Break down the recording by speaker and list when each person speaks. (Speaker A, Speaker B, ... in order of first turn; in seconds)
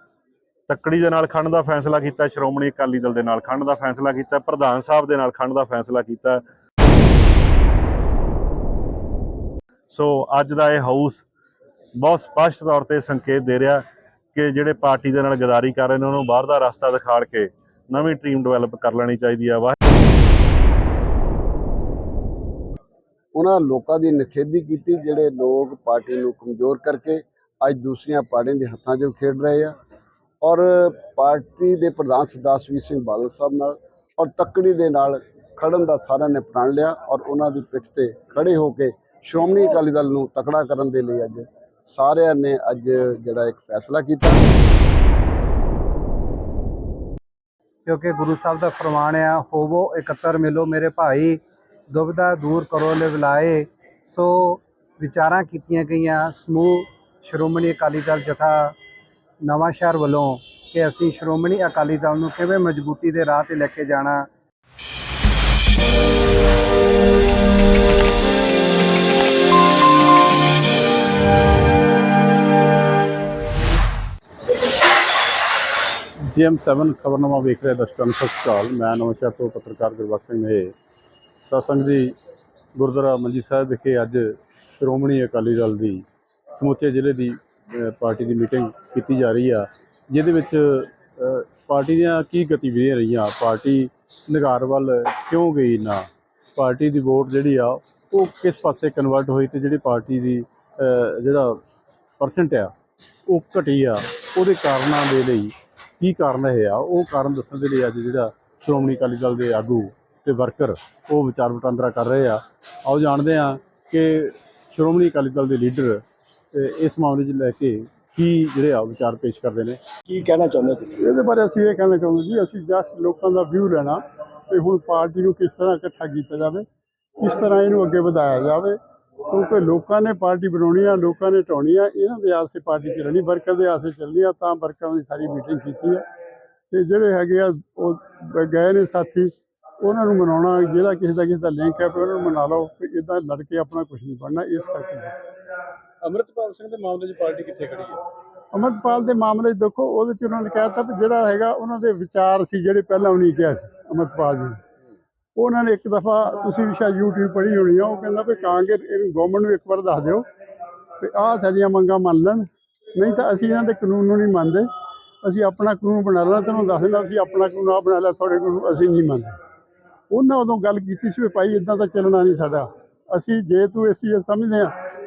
Speaker A: 0.7-6.4, 9.9-11.2, 11.9-13.8, 14.3-19.7
Speaker B: 23.3-29.7, 30.4-44.4
Speaker C: 47.9-58.7, 59.4-64.3
Speaker D: 76.3-80.7, 81.4-82.2, 82.8-101.6, 102.2-102.7, 103.3-120.5, 146.0-148.0
Speaker E: 120.9-126.6, 127.2-136.0, 136.7-145.1, 148.5-154.6, 155.4-160.2, 161.0-164.7, 165.2-169.3, 170.1-174.7